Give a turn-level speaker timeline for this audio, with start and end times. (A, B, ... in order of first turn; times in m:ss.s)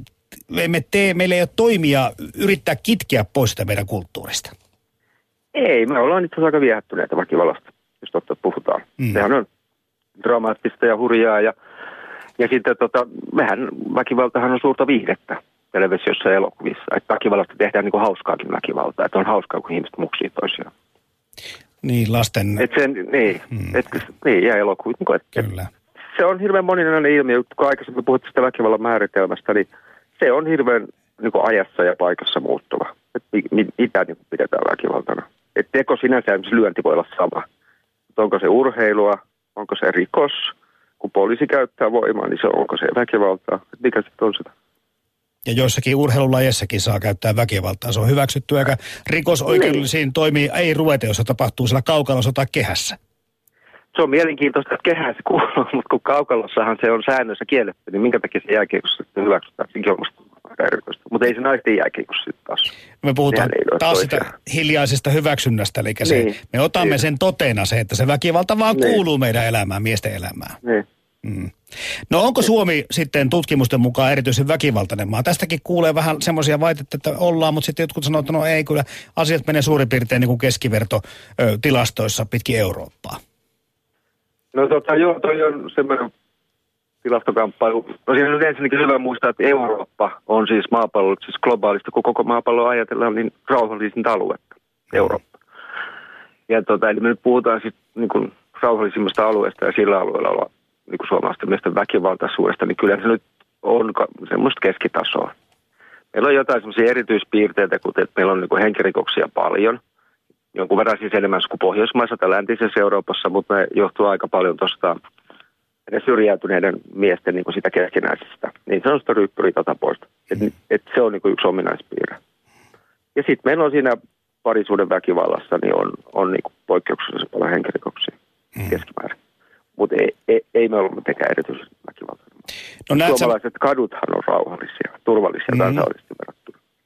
0:00.5-0:04.5 A
0:05.5-0:09.5 B
0:10.2-0:11.5 B
0:12.4-0:20.7 B
0:21.8-0:22.7 A
0:22.6-0:25.4 B
0:25.4-0:25.7 A
0:26.1-0:29.7 B
0:30.2-0:37.5 B
0:38.2-0:44.5 B
0:45.5-0:53.0 A
0:53.9-1:02.7 B
1:03.0-1:10.6 A
1:03.3-1:04.3 B
1:06.0-1:06.4 B
1:11.2-1:11.5 A
1:12.1-1:23.2 A
1:24.5-1:26.1 B
1:27.0-1:35.2 B
1:36.5-1:45.3 B
1:46.1-1:49.8 B
1:50.5-1:55.0 B
1:55.9-2:02.2 B
2:03.2-2:08.2 B
2:08.7-2:09.2 B
2:09.8-2:12.2 B
2:12.9-2:13.3 A
2:12.9-2:16.6 B
2:15.5-2:15.8 A